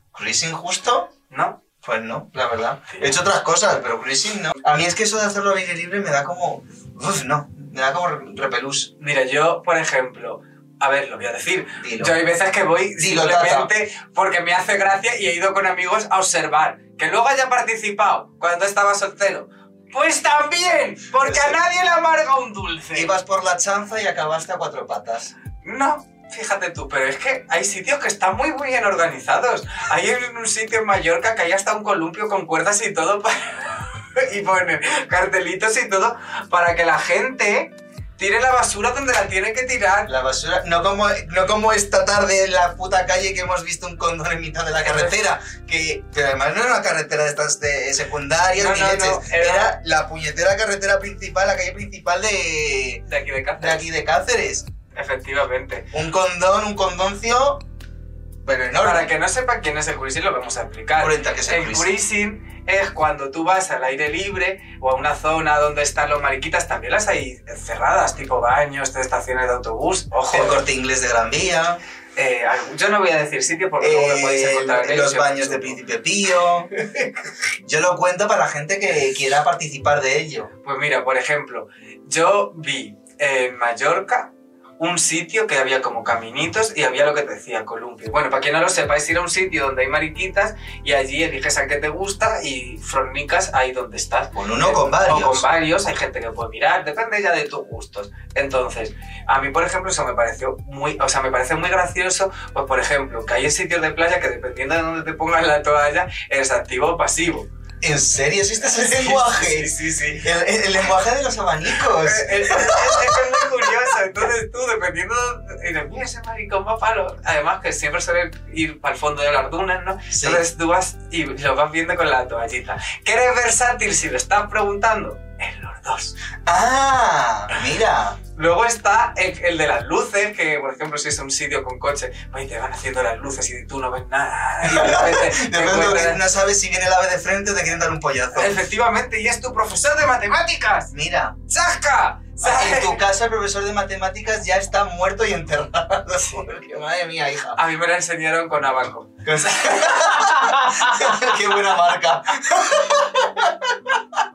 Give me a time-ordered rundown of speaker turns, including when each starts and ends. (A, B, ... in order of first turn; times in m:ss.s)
0:00.1-0:01.1 A
0:01.3-0:01.6 B
0:01.8-0:08.9 A
0:02.9-0:03.2 B
0:09.0-0:23.1 B
0:11.8-0:12.2 A
0:13.0-0:13.7 A
0:21.2-0:21.6 A
0:22.9-0:25.4 A
0:25.6-0:40.1 B
0:40.1-0:53.0 A
0:44.8-0:45.2 B
0:48.6-0:49.8 B
0:53.1-0:53.9 B
0:53.6-0:54.7 A
0:55.0-0:55.9 B
0:55.9-0:57.6 A
0:58.4-0:59.1 A
0:58.8-1:10.6 B
1:01.0-1:01.9 A
1:10.3-1:11.8 A
1:12.2-1:15.8 B
1:13.8-1:16.7 A
1:16.8-1:17.1 B
1:17.6-1:20.5 A
1:20.6-1:47.5 B
1:34.3-1:35.4 A
1:47.8-1:53.8 A
1:48.8-1:50.3 B
1:51.7-2:06.2 B
2:00.1-2:00.4 A
2:06.5-2:08.2 A
2:08.4-2:16.2 B
2:14.6-2:18.6 A
2:18.3-2:20.9 B
2:20.9-2:21.4 A
2:21.5-2:23.0 B
2:22.4-2:27.6 A
2:26.2-2:26.4 B
2:27.6-2:31.6 B
2:29.2-2:33.8 A